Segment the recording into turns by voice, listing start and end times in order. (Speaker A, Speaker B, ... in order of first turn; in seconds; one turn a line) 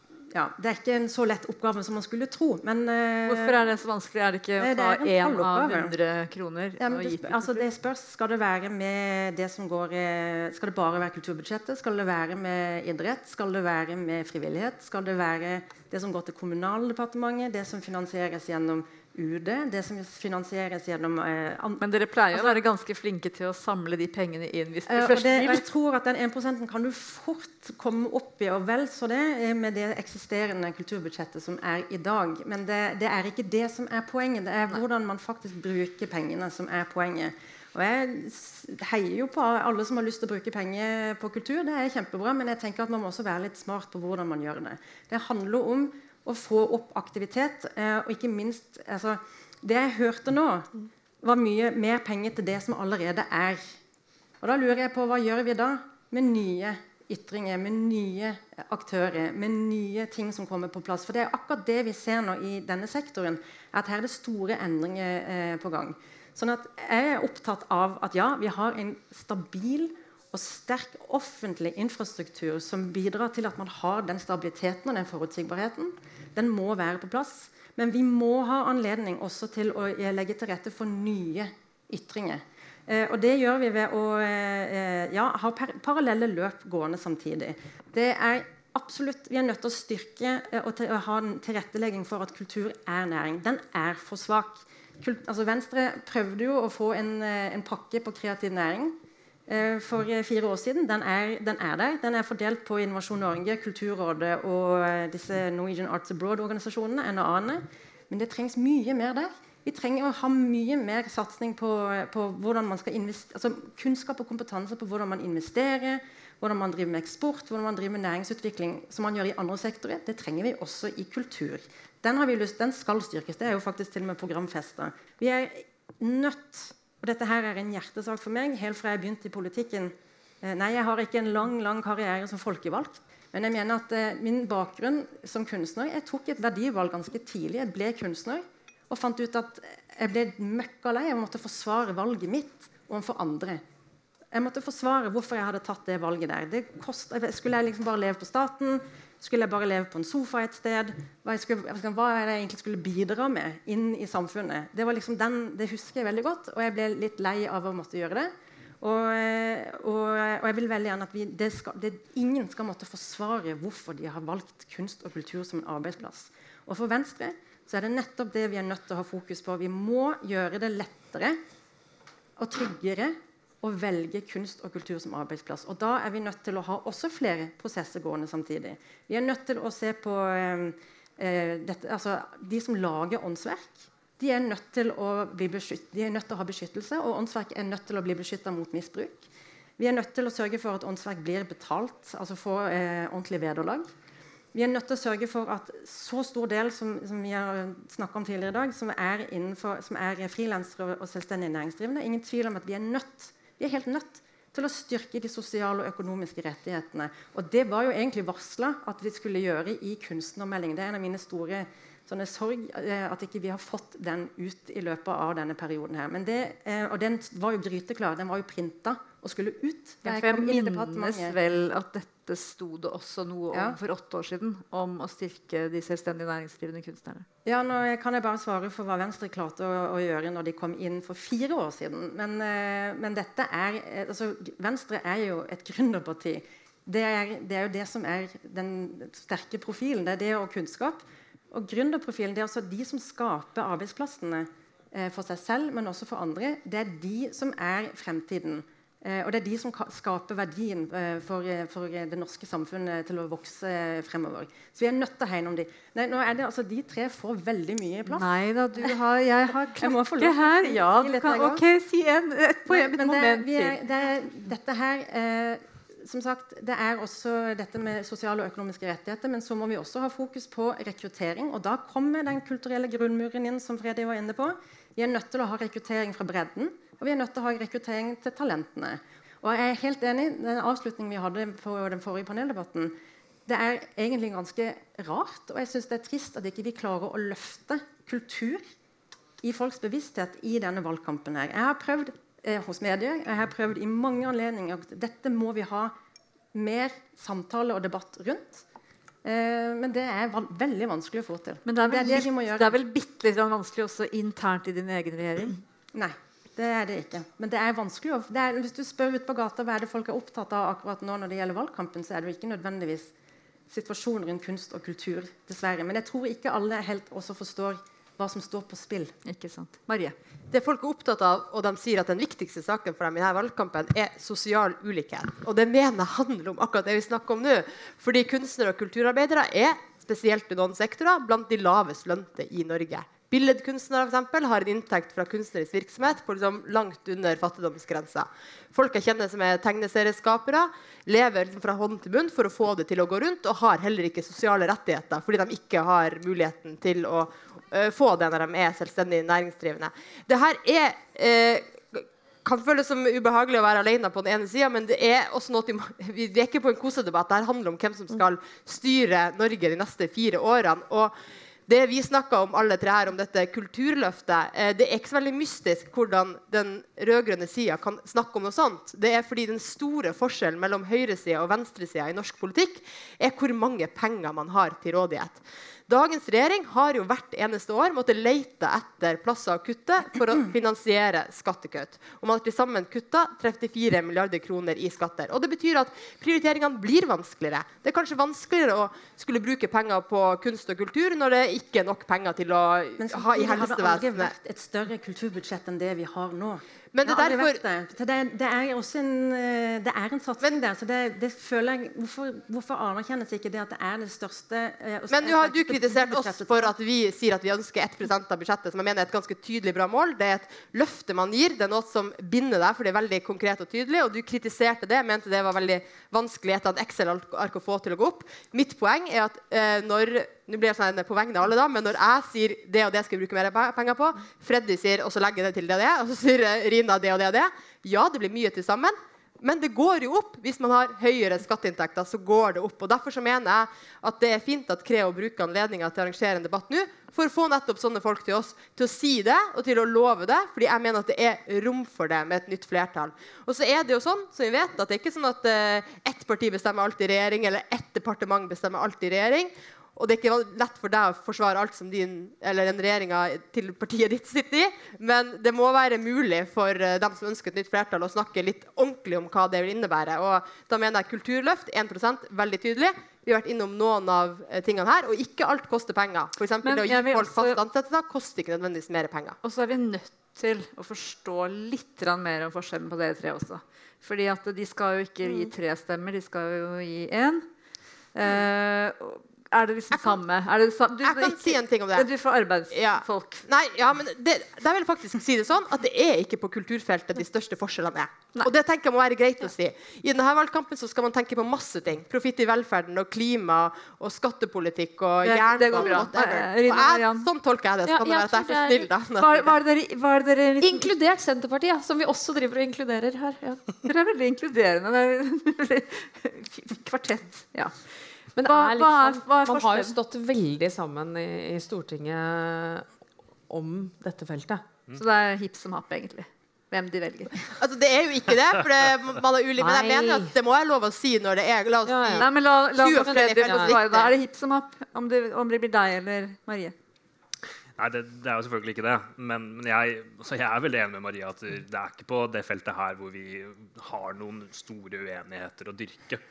Speaker A: 0.3-3.6
Speaker B: 3.2-7.7
Speaker A: 4.6-6.0
Speaker A: 6.8-22.6
Speaker B: 21.8-25.6
Speaker A: 24.9-50.7
Speaker A: 51.2-53.6
Speaker A: 54.4-99.0
Speaker A: 99.5-143.6
Speaker A: 144.3-171.4
Speaker A: 172.4-193.9
Speaker A: 194.5-221.3
Speaker B: 220.0-227.2
Speaker A: 223.5-223.8
Speaker A: 227.4-258.9
Speaker B: 258.1-263.8
Speaker A: 259.8-261.6
Speaker A: 262.7-282.9
Speaker A: 283.5-288.6
Speaker A: 289.4-295.9
Speaker A: 296.5-298.6
Speaker A: 299.2-302.8
Speaker B: 301.6-305.6
Speaker A: 305.9-313.1
Speaker A: 313.7-319.1
Speaker B: 319.2-320.1
Speaker C: 320.5-361.1
Speaker C: 361.7-394.3
Speaker A: 393.0-406.7
Speaker C: 396.9-397.6
Speaker C: 405.1-469.4
Speaker B: 466.6-467.6
Speaker B: 469.4-477.4
Speaker B: 478.1-483.4
Speaker C: 481.0-482.1
Speaker C: 482.7-499.5
Speaker B: 495.2-497.3
Speaker D: 497.9-498.9
Speaker B: 499.2-500.9
Speaker D: 500.6-503.6
Speaker B: 503.9-507.7
Speaker D: 508.4-512.9
Speaker B: 508.4-509.9
Speaker D: 513.5-514.6
Speaker B: 514.9-517.5
Speaker C: 517.6-524.1
Speaker D: 519.6-520.3
Speaker D: 521.9-522.2
Speaker B: 522.1-526.7
Speaker E: 527.8-536.2